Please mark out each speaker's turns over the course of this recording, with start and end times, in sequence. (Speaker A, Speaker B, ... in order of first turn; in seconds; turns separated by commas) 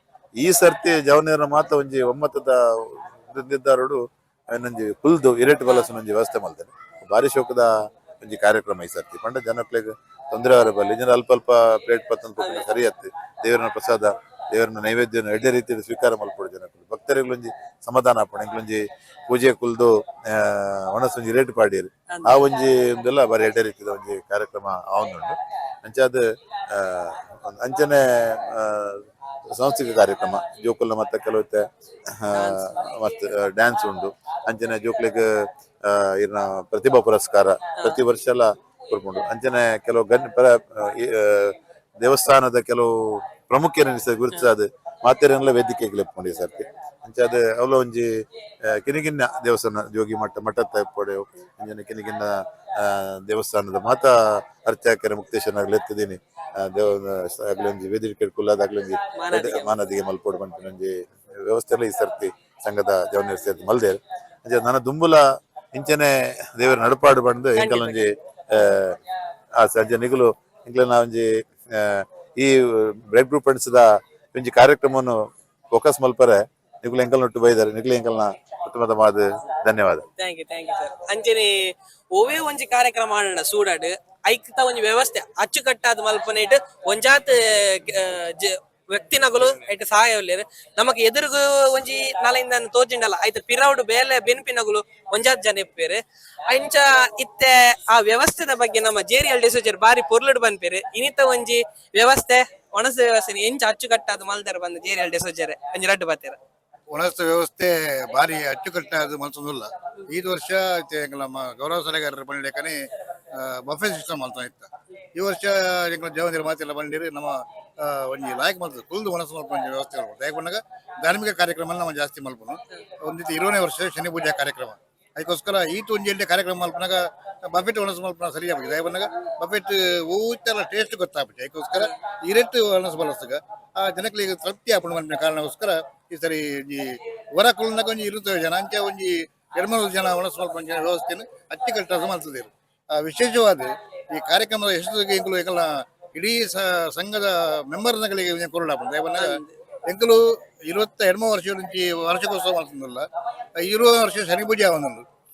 Speaker A: 0.4-69.0, Speaker B: 12.4-12.7, Speaker B: 22.1-22.4, Speaker B: 32.3-32.7, Speaker B: 59.2-59.8, Speaker B: 67.6-68.1, Speaker A: 69.6-80.1, Speaker B: 80.2-106.4, Speaker C: 106.9-153.1, Speaker B: 149.2-149.5, Speaker C: 153.6-155.1